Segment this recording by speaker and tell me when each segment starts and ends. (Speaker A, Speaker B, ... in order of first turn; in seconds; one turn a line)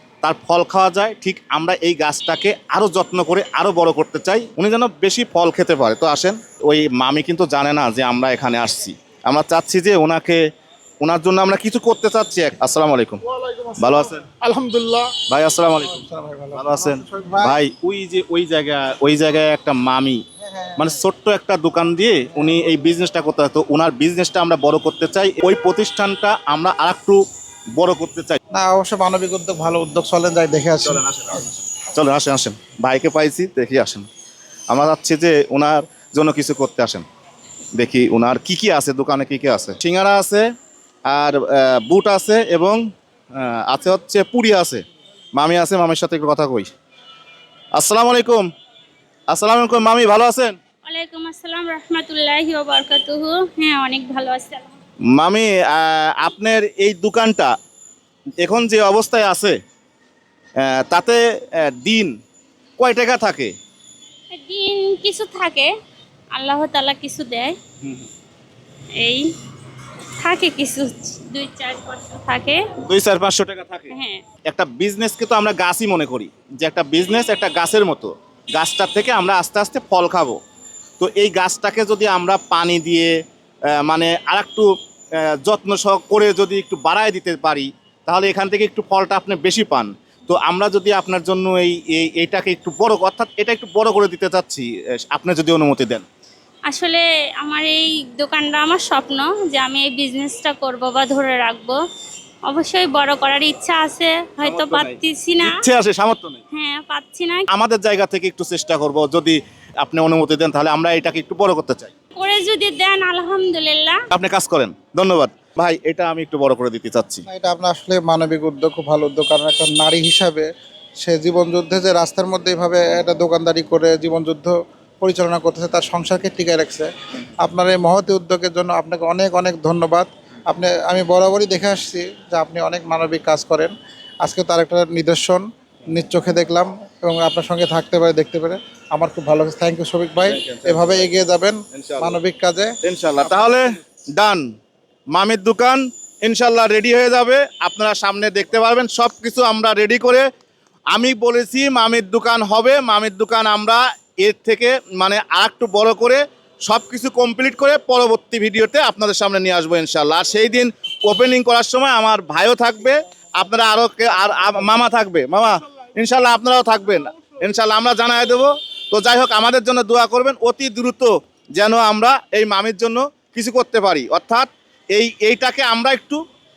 Speaker A: 0.2-10.4
Speaker A: 11.0-13.2
Speaker B: 13.4-15.2
Speaker A: 13.8-14.2
Speaker A: 15.3-20.2
Speaker B: 15.8-17.6
Speaker B: 20.4-20.9
Speaker A: 20.8-27.2
Speaker A: 27.8-28.4
Speaker B: 28.5-31.0
Speaker A: 30.8-34.0
Speaker A: 34.7-37.0
Speaker A: 37.8-40.5
Speaker A: 41.1-42.8
Speaker A: 43.3-44.8
Speaker A: 45.3-46.7
Speaker A: 47.8-48.5
Speaker A: 49.3-50.6
Speaker C: 50.8-54.7
Speaker A: 55.1-57.5
Speaker A: 58.4-59.5
Speaker A: 60.6-62.1
Speaker A: 62.8-63.5
Speaker C: 64.3-65.7
Speaker C: 66.3-67.5
Speaker A: 67.8-68.1
Speaker C: 69.0-69.3
Speaker C: 70.2-72.6
Speaker A: 72.8-73.9
Speaker C: 73.9-74.2
Speaker A: 74.5-80.4
Speaker A: 81.0-83.2
Speaker A: 83.7-84.7
Speaker A: 85.2-96.0
Speaker C: 96.7-101.8
Speaker C: 102.5-105.6
Speaker A: 104.4-106.4
Speaker C: 106.5-107.5
Speaker A: 107.5-111.9
Speaker C: 112.2-114.0
Speaker A: 114.1-117.2
Speaker B: 117.3-120.5
Speaker B: 121.0-126.9
Speaker B: 127.4-142.7
Speaker A: 140.2-141.1
Speaker A: 141.7-142.2
Speaker A: 142.8-144.5
Speaker A: 145.1-150.2
Speaker A: 150.9-176.2